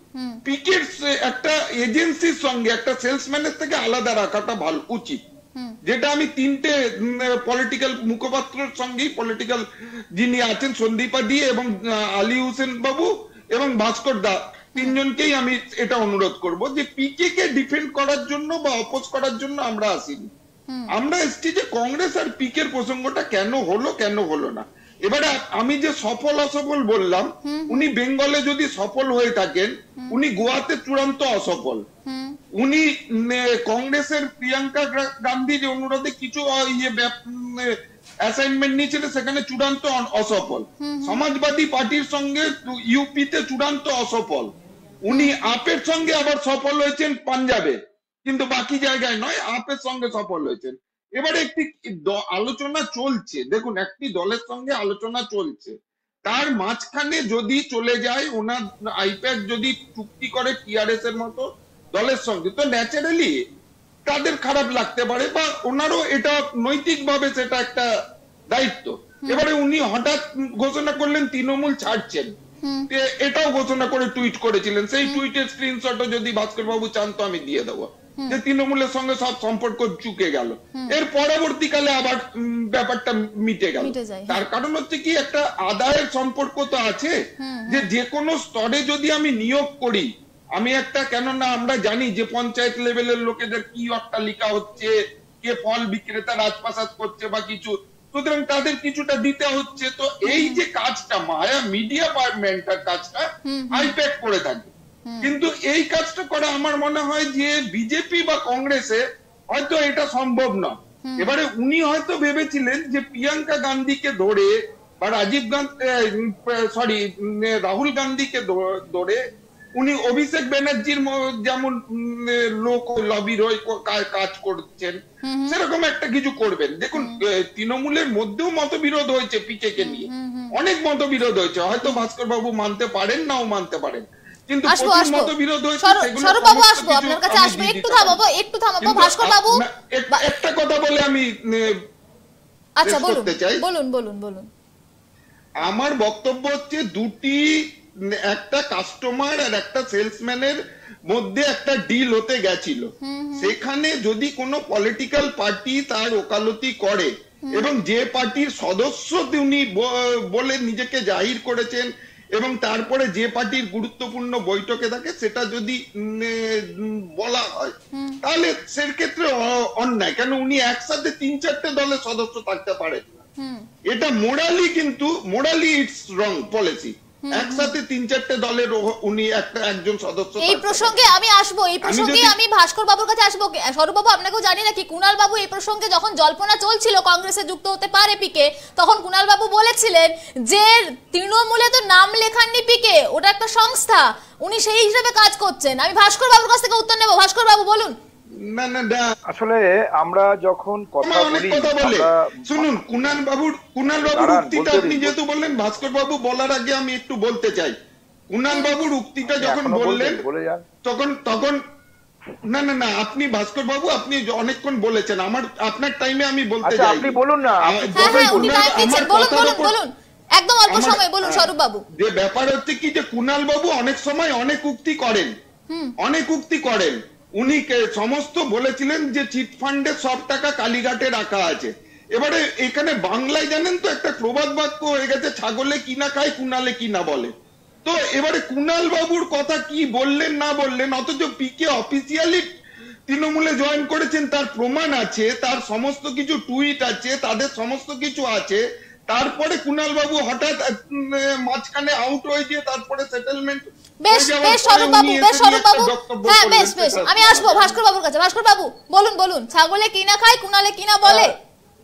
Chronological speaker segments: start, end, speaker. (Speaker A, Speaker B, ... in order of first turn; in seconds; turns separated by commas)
Speaker A: 0.1-0.4, Speaker B: 0.5-5.2, Speaker B: 5.8-9.6, Speaker B: 10.2-20.3, Speaker B: 20.9-31.8, Speaker A: 27.4-27.9, Speaker A: 32.0-32.4, Speaker B: 32.6-44.5, Speaker A: 40.8-41.2, Speaker B: 45.1-55.7, Speaker A: 45.1-45.4, Speaker B: 56.2-63.4, Speaker B: 64.1-67.9, Speaker B: 68.5-72.3, Speaker A: 72.6-72.9, Speaker B: 72.9-87.2, Speaker A: 83.8-84.4, Speaker A: 87.4-87.9, Speaker B: 87.7-109.0, Speaker A: 100.3-100.6, Speaker A: 103.4-104.0, Speaker A: 105.0-105.3, Speaker B: 109.5-119.2, Speaker A: 111.0-111.3, Speaker B: 119.8-138.2, Speaker A: 125.2-125.6, Speaker A: 129.8-130.5, Speaker A: 131.8-132.0, Speaker A: 134.7-139.6, Speaker B: 138.8-141.8, Speaker A: 142.8-144.5, Speaker B: 142.8-143.6, Speaker B: 145.6-173.2, Speaker A: 153.0-153.5, Speaker A: 167.9-168.2, Speaker B: 173.9-181.0, Speaker A: 177.3-177.8, Speaker A: 180.4-197.9, Speaker B: 181.8-182.3, Speaker B: 198.4-199.1, Speaker C: 199.3-202.8, Speaker B: 201.0-207.7, Speaker C: 204.0-205.2, Speaker B: 208.3-210.2, Speaker A: 208.5-208.8, Speaker C: 209.3-210.6, Speaker B: 210.8-211.6, Speaker B: 212.5-219.7, Speaker C: 216.6-218.6, Speaker A: 218.0-221.8, Speaker B: 220.7-225.3, Speaker A: 225.7-225.9, Speaker B: 226.0-237.3, Speaker B: 237.8-242.4, Speaker B: 243.1-257.8, Speaker A: 254.0-261.3, Speaker C: 261.1-261.3